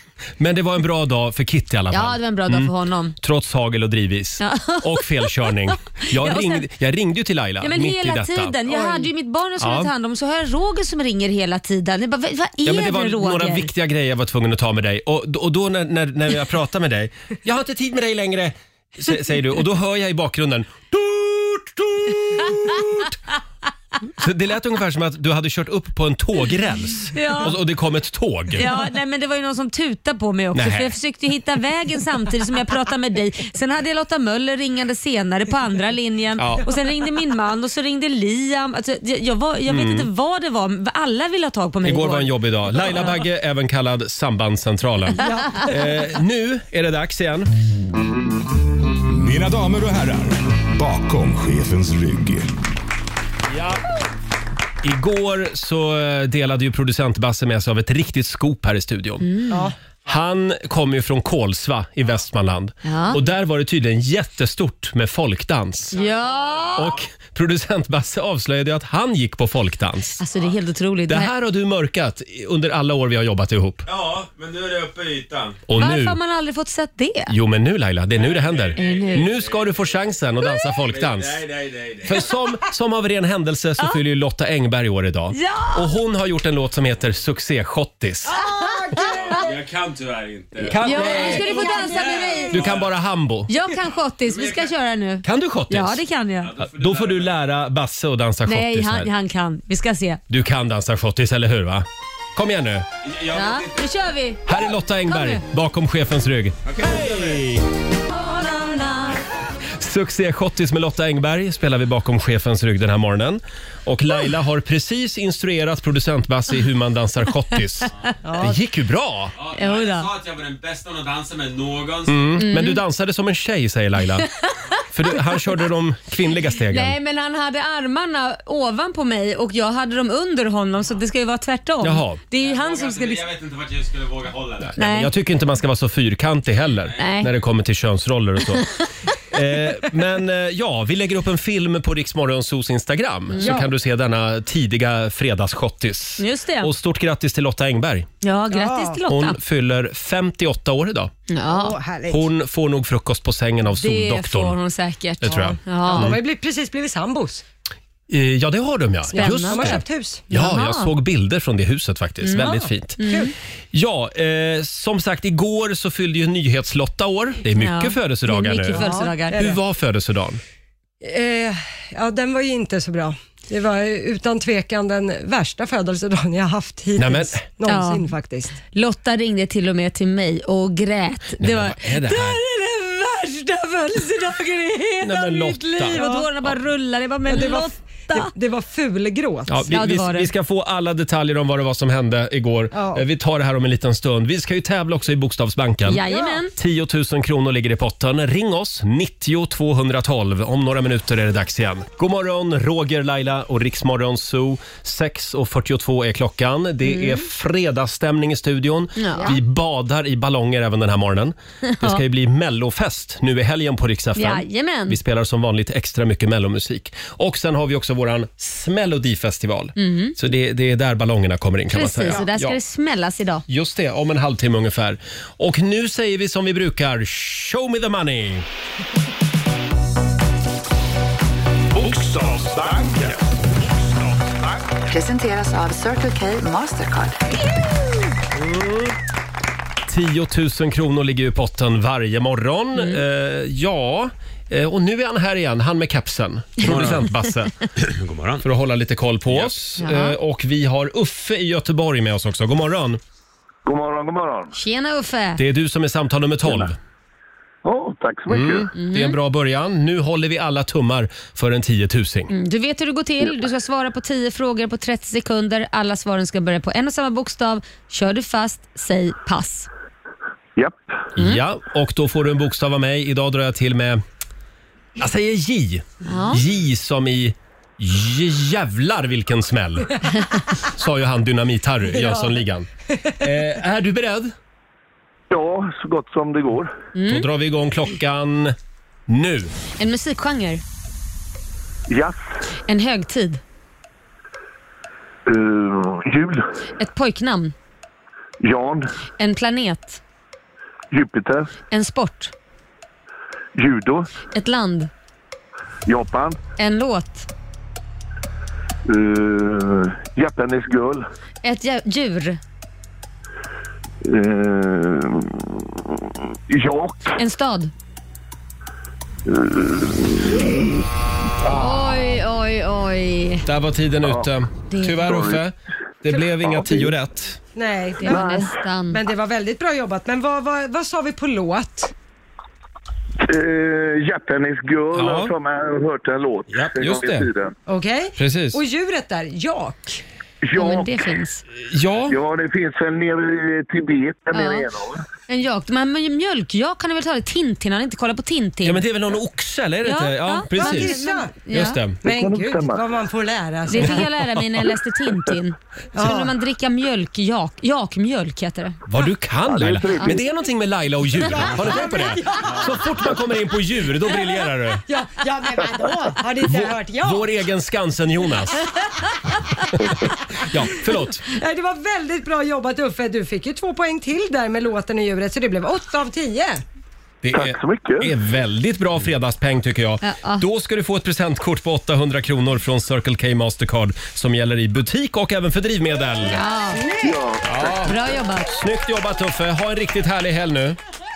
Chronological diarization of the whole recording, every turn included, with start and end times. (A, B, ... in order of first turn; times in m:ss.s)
0:00.4-0:08.5 A
0:01.9-0:03.2 B
0:04.4-0:05.6 B
0:06.1-0:06.6 B
0:07.6-0:13.7 B
0:08.7-0:09.1 C
0:09.6-0:09.9 A
0:12.6-0:23.2 A
0:24.2-0:28.7 A
0:27.1-0:27.6 B
0:28.5-0:43.0 B
0:30.5-0:30.9 A
0:36.4-0:36.6 A
0:39.7-0:40.1 A
0:41.8-0:47.5 A
0:45.2-0:45.7 C
0:49.1-0:52.5 D
0:54.8-0:59.3 A
0:59.2-0:59.7 B
0:59.5-0:59.7 C
1:00.1-1:06.0 A
1:02.8-1:03.2 B
1:05.9-1:06.9 B
1:06.2-1:06.7 E
1:06.7-1:10.2 A
1:10.2-1:11.3 B
1:11.1-1:13.9 A
1:13.9-1:15.5 E
1:15.7-1:16.2 A
1:15.8-1:17.3 B
1:17.3-1:21.4 A
1:18.3-1:19.9 E
1:18.8-1:19.4 B
1:21.0-1:22.2 E
1:22.0-1:28.4 A
1:25.3-1:25.9 B
1:28.3-1:29.5 C
1:29.2-1:31.0 E
1:30.6-1:31.6 A
1:30.7-1:32.7 B
1:31.0-1:32.5 C
1:31.6-1:32.1 E
1:32.5-1:33.5 A
1:33.5-1:36.5 B
1:34.3-1:34.7 E
1:35.2-1:36.0 A
1:36.4-1:37.2 E
1:36.6-1:39.1 A
1:38.4-1:40.2 B
1:40.3-1:42.8 A
1:43.1-1:43.7 E
1:43.3-1:45.4 B
1:44.5-1:47.6 A
1:46.7-1:47.4 E
1:48.1-1:49.2 B
1:49.8-1:59.3 A
1:58.2-1:58.6 C
1:59.4-2:02.3 E
1:59.5-2:00.1 B
2:02.0-2:04.3 A
2:02.4-2:02.8 B
2:04.3-2:04.5 B
2:04.9-2:07.0 A
2:06.7-2:13.3 B
2:11.8-2:12.2 A
2:12.4-2:14.7 E
2:14.8-2:18.7 A
2:14.8-2:15.1 B
2:17.0-2:17.3 B
2:19.3-2:28.1 A
2:23.4-2:23.7 C
2:26.2-2:26.7 B
2:28.2-2:29.4 B
2:28.5-2:29.0 C
2:29.1-2:31.1 A
2:31.3-2:31.8 B
2:31.5-2:32.2 C
2:32.1-2:34.6 A
2:33.7-2:36.1 B
2:35.2-2:36.2 A
2:35.3-2:37.4 C
2:38.1-2:43.0 A
2:39.1-2:40.9 B
2:39.1-2:40.2 C
2:42.2-2:43.3 B
2:42.4-2:43.3 C
2:43.7-2:48.8 A
2:47.6-2:49.4 B
2:48.7-2:49.6 C
2:49.3-2:50.4 A
2:51.0-2:58.6 C
2:57.0-2:57.4 A
2:57.7-2:58.1 B
2:58.7-3:02.4 B
3:01.4-3:02.4 A
3:02.4-3:05.2 C
3:04.9-3:08.3 B
3:05.0-3:06.5 A
3:05.8-3:06.3 C
3:07.2-3:09.6 C
3:09.5-3:16.0 A
3:09.7-3:10.3 B
3:12.7-3:13.0 C
3:15.8-3:16.5 B
3:16.1-3:16.4 C
3:16.6-3:42.6 A
3:26.8-3:27.2 B
3:29.0-3:29.4 B
3:31.7-3:32.0 B
3:34.2-3:35.0 B
3:39.8-3:40.2 B
3:41.7-3:43.4 B
3:43.5-3:48.4 A
3:51.8-3:53.2 D
3:54.9-3:57.2 F
3:58.3-3:58.9 A
3:59.9-4:07.6 A
4:02.8-4:03.0 B
4:06.6-4:07.0 E
4:07.8-4:08.4 E
4:08.4-4:13.0 A
4:09.8-4:10.2 B
4:13.6-4:14.5 G
4:14.5-4:15.4 B
4:15.4-4:16.8 A
4:17.6-4:18.7 G
4:18.3-4:22.3 A
4:18.8-4:19.2 B
4:22.3-4:29.7 B
4:31.2-4:34.0 A
4:35.0-4:40.0 A
4:36.0-4:36.4 B
4:40.7-4:44.3 A
4:41.9-4:42.4 C
4:45.3-4:46.7 G
4:46.9-4:47.2 B
4:47.0-4:48.5 A
4:49.1-4:49.5 A
4:49.8-4:50.6 B
4:51.9-4:52.2 G
4:52.7-4:53.4 B
4:55.2-4:56.4 G
4:56.8-4:57.5 B
4:58.4-4:58.9 G
4:59.2-5:00.0 B
5:00.9-5:01.5 G
5:01.7-5:02.3 B
5:03.6-5:04.1 G
5:04.3-5:04.9 B
5:05.8-5:06.4 G
5:06.6-5:07.3 B
5:08.8-5:11.0 G
5:11.4-5:12.4 B
5:14.0-5:17.2 G
5:17.2-5:17.7 B
5:19.3-5:20.8 G
5:21.4-5:22.1 G
5:21.6-5:23.4 B
5:23.4-5:27.4 A
5:24.7-5:25.2 B
5:25.0-5:25.4 G
5:26.4-5:26.8 G
5:27.5-5:31.9 C
5:28.0-5:29.0 B
5:28.0-5:28.5 G
5:33.2-5:37.5 G
5:34.9-5:35.3 A
5:36.5-5:37.3 A
5:37.7-5:40.0 C
5:38.2-5:38.6 A
5:40.4-5:40.9 G
5:40.6-5:41.4 B
5:41.6-5:42.2 A
5:42.1-5:45.0 G
5:44.3-5:44.7 B
5:45.3-5:48.8 B
5:48.6-5:51.0 A
5:49.8-5:51.8 B
5:50.5-5:51.3 C
5:51.5-5:52.0 A
5:52.0-5:54.1 C
5:52.0-5:52.8 G
5:53.7-5:58.8 B
5:55.9-5:56.3 C
5:58.9-6:04.8 A
5:59.5-6:00.2 G
6:01.2-6:02.8 C
6:04.9-6:07.3 C
6:06.4-6:08.7 A
6:09.7-6:11.2 A
6:11.3-6:16.6 C
6:17.2-6:26.4 A
6:17.3-6:18.1 G
6:20.0-6:20.4 B
6:26.3-6:26.8 B
6:26.7-6:27.2 C
6:27.0-6:27.9 G
6:27.4-6:30.8 A
6:27.8-6:28.5 B